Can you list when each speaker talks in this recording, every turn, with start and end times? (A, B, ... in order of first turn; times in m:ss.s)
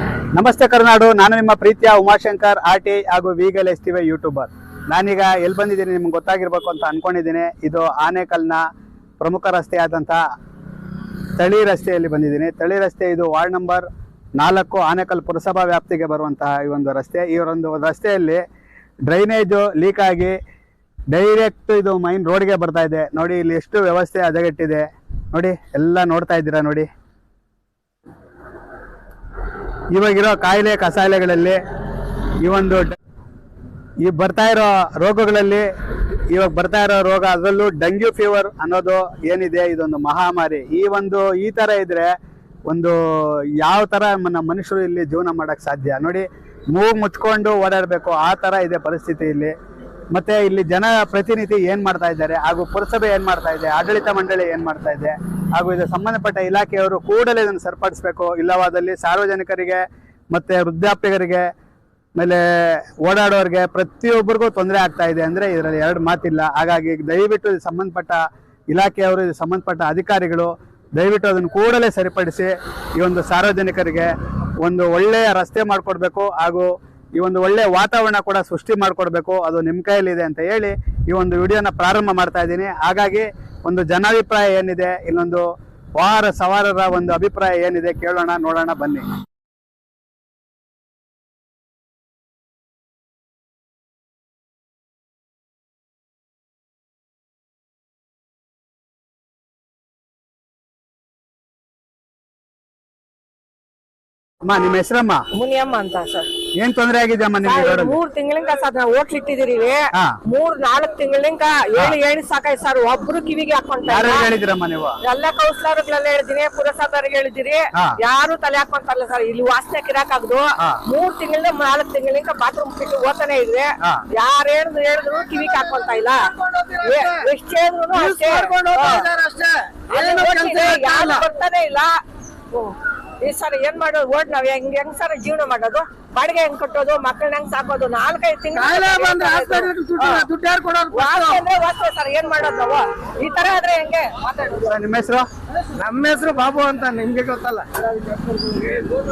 0:00.3-0:08.6 A
0:09.2-0:10.2 A
0:11.4-0:18.4 A
0:19.1-0:20.4 A
0:21.1-0:26.9 A
0:29.9-0:31.6 A
0:32.4-0:33.0 A
0:34.0-0:35.7 A
0:36.3-0:42.2 A
0:42.7-0:49.5 A
0:50.1-1:01.5 A
1:02.2-1:25.5 A
1:26.0-1:29.1 A
1:44.4-1:45.2 A
1:45.3-1:46.3 B
1:46.6-1:48.0 A
1:47.4-1:54.3 B
1:53.9-1:55.0 A
1:55.0-2:06.3 B
2:06.4-2:07.1 C
2:06.8-2:09.1 B
2:08.0-2:11.2 C
2:09.9-2:12.0 B
2:12.5-2:20.3 B
2:18.6-2:21.4 C
2:20.9-2:24.6 B
2:24.6-2:25.3 A
2:25.8-2:27.7 C